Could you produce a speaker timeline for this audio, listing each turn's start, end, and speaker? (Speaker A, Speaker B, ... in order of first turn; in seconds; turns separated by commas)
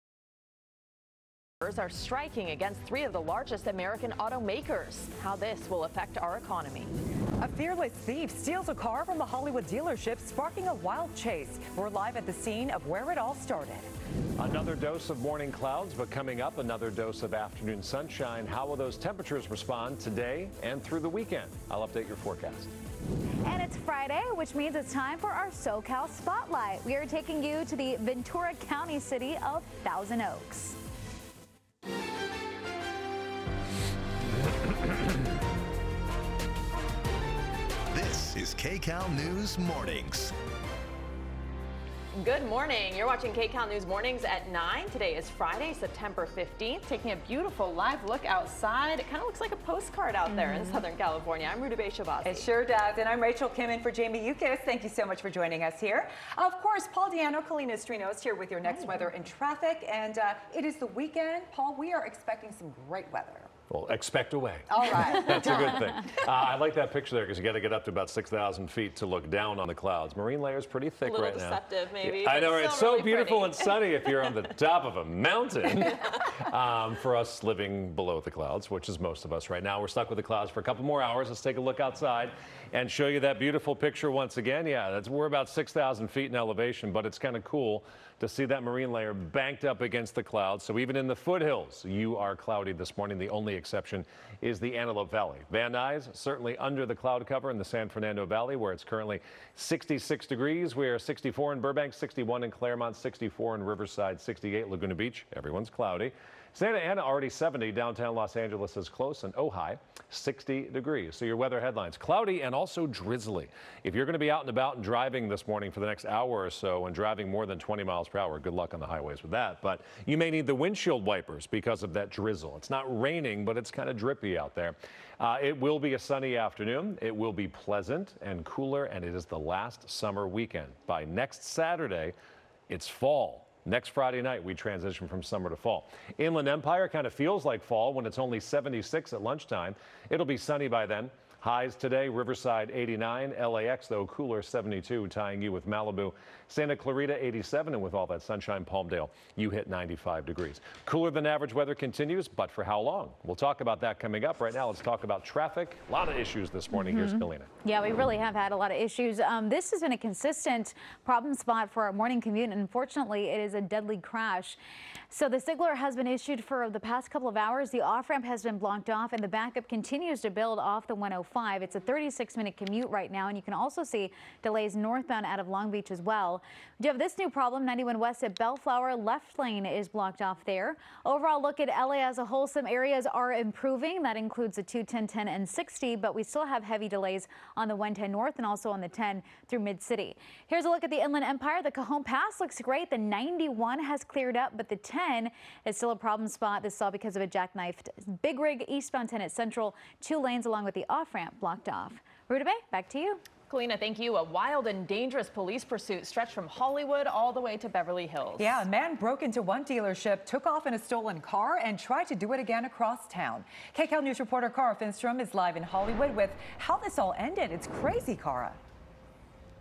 Speaker A: 1.6-6.9, Speaker B: 7.4-13.9, Speaker C: 14.4-22.7, Speaker D: 23.4-30.8, Speaker E: 37.9-40.3, Speaker A: 42.1-52.5, Speaker B: 50.4-50.8, Speaker B: 52.2-63.5, Speaker C: 63.7-132.1, Speaker B: 64.7-65.8, Speaker A: 71.0-73.8, Speaker C: 132.7-157.5, Speaker D: 156.7-164.6, Speaker D: 165.1-203.2, Speaker A: 203.5-208.6, Speaker B: 208.4-218.6